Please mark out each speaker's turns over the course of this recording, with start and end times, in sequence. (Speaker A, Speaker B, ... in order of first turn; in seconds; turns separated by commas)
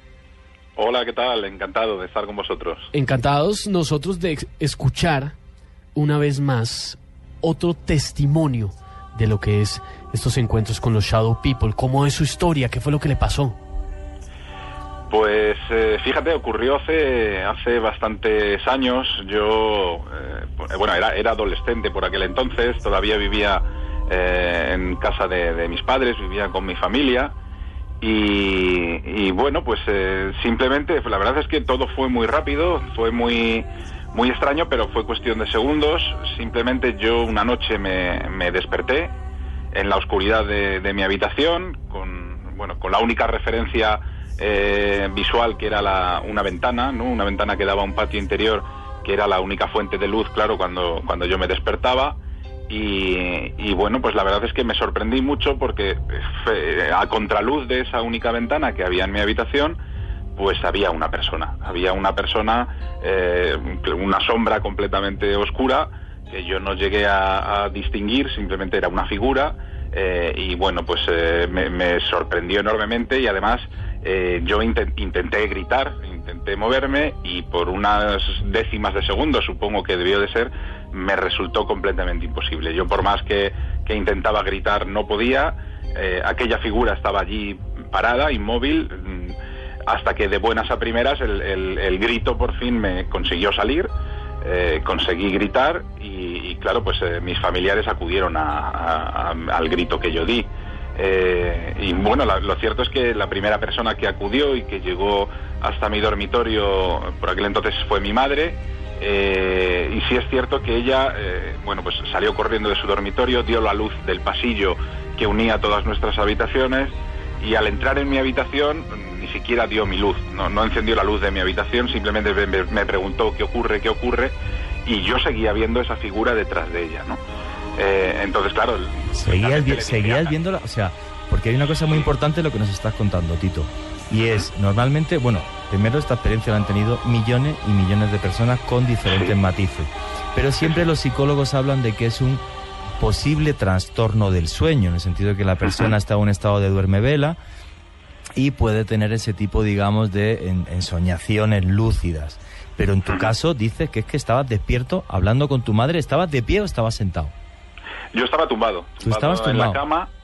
Speaker A: 0.8-2.9, Speaker B: 2.9-5.3, Speaker B: 5.9-13.6, Speaker A: 15.1-27.3, Speaker A: 28.0-39.1, Speaker A: 39.7-59.8, Speaker A: 60.4-89.3, Speaker A: 89.9-93.9, Speaker A: 94.4-127.2, Speaker A: 127.8-130.3, Speaker C: 129.1-142.4, Speaker A: 134.2-134.5, Speaker A: 139.1-139.3, Speaker C: 143.0-147.4, Speaker C: 148.3-157.3, Speaker A: 153.1-153.3, Speaker A: 158.1-160.1, Speaker C: 159.0-159.8